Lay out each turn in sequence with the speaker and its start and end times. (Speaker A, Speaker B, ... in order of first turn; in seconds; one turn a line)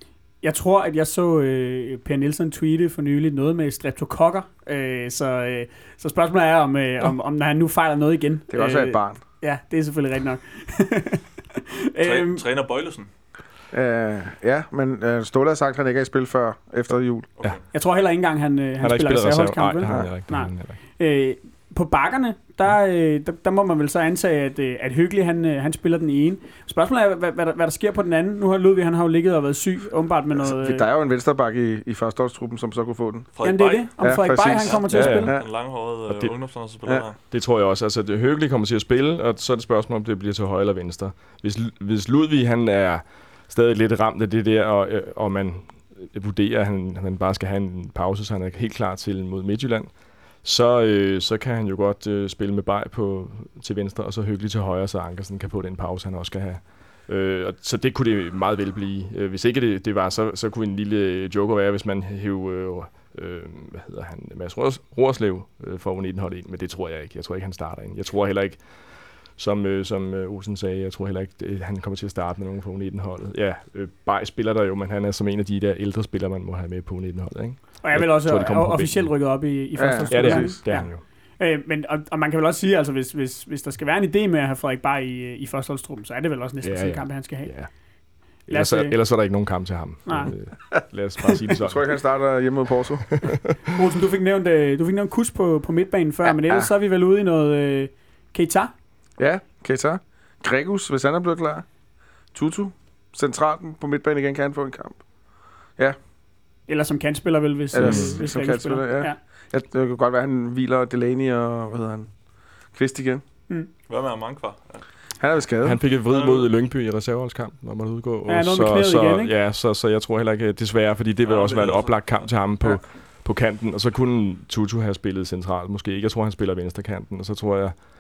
Speaker A: 0.4-12.4
Speaker B: 8.5-9.2
Speaker C: 12.0-13.1
Speaker B: 13.7-17.3
Speaker A: 17.7-30.9
Speaker D: 18.8-20.8
Speaker B: 30.4-33.3
Speaker C: 33.3-37.2
Speaker A: 33.4-35.3
Speaker B: 33.8-35.5
Speaker D: 34.9-35.4
Speaker D: 36.1-36.3
Speaker D: 37.3-49.9
Speaker D: 50.4-68.7
Speaker D: 69.3-79.1
Speaker A: 77.8-87.6
Speaker B: 79.8-80.6
Speaker D: 80.1-81.0
Speaker D: 86.6-87.7
Speaker D: 88.5-91.9
Speaker A: 88.5-89.0
Speaker A: 90.1-90.3
Speaker B: 91.6-93.2
Speaker D: 93.2-93.5
Speaker A: 93.8-98.7
Speaker B: 96.2-96.7
Speaker B: 99.2-101.7
Speaker B: 102.3-105.0
Speaker A: 106.7-109.2
Speaker B: 107.7-112.1
Speaker D: 107.8-108.2
Speaker B: 112.7-113.2
Speaker C: 113.9-114.9
Speaker B: 115.2-115.8
Speaker D: 115.6-127.8
Speaker C: 116.0-116.5
Speaker A: 118.3-119.3
Speaker C: 121.2-122.3